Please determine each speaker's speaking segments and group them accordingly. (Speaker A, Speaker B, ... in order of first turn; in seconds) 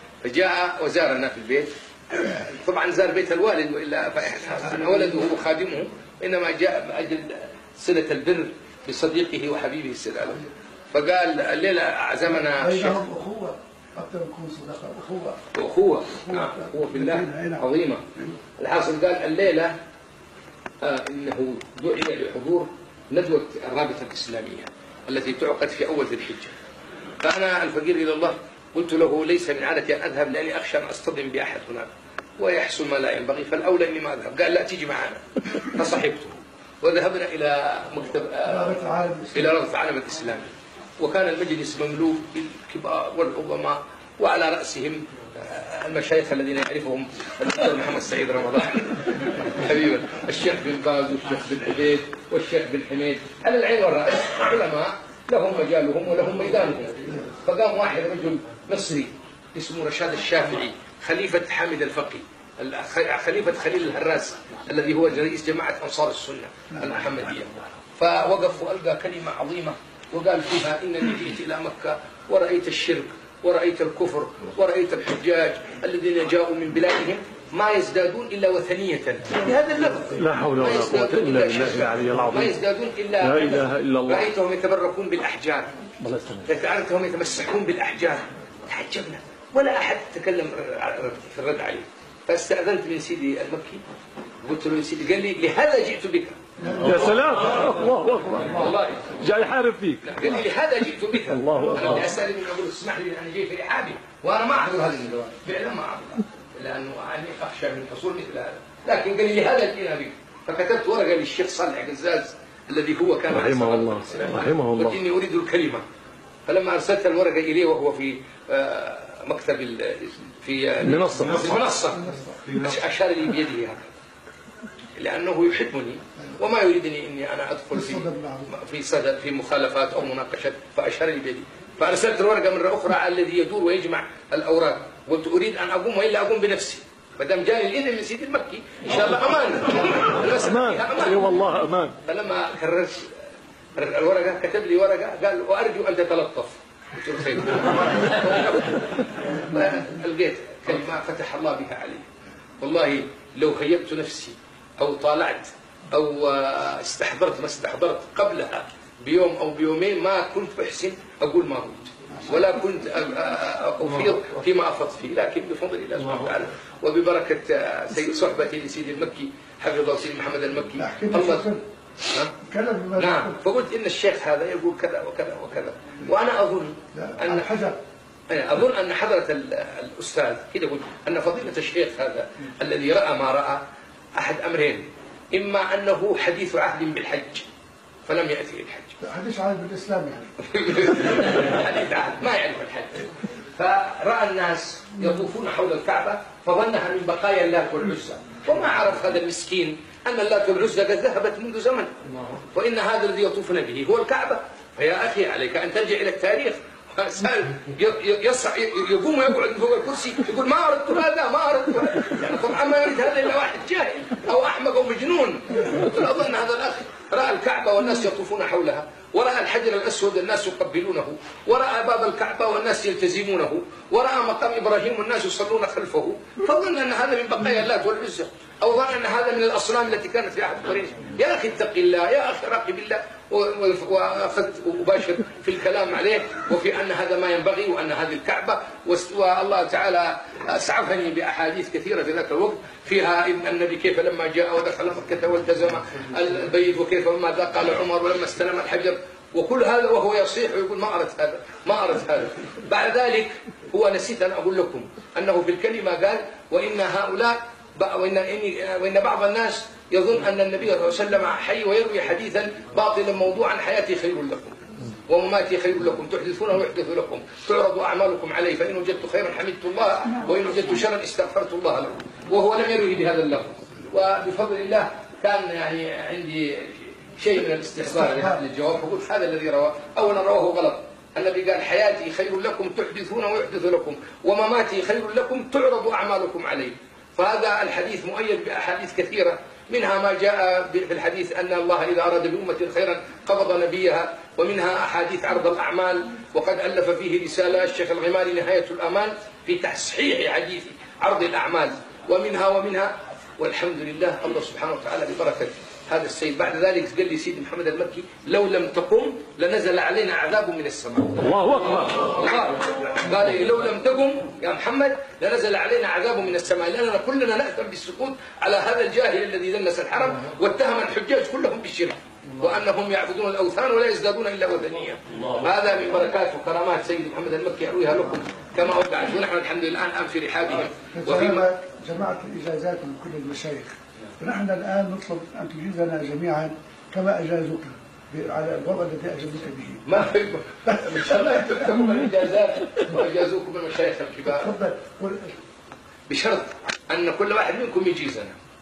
Speaker A: 0.2-13.0, 15.5-18.1, 18.6-19.8, 20.8-26.5, 27.2-40.5, 41.0-85.7, 86.4-93.8, 94.4-96.4, 98.5-99.2, 100.0-115.8, 116.5-123.9, 125.0-141.3, 142.0-143.2, 143.8-152.1, 152.6-171.5, 172.1-172.3, 173.0-177.5, 178.3-183.6, 184.2-187.5, 188.1-188.9, 190.4-331.4, 339.9-344.5, 346.1-348.4
Speaker B: 12.3-15.4, 16.2-17.6, 38.5-39.5, 121.9-122.5, 127.7-128.5, 170.8-171.6, 172.4-173.3, 176.9-177.8, 189.0-190.2, 330.9-339.9, 340.7-341.6, 344.3-345.4
Speaker C: 80.1-82.5, 83.2-84.2, 86.0-86.5, 96.8-100.2, 101.3-102.0, 113.3-115.0, 120.8-121.6, 140.3-141.9, 311.3-312.0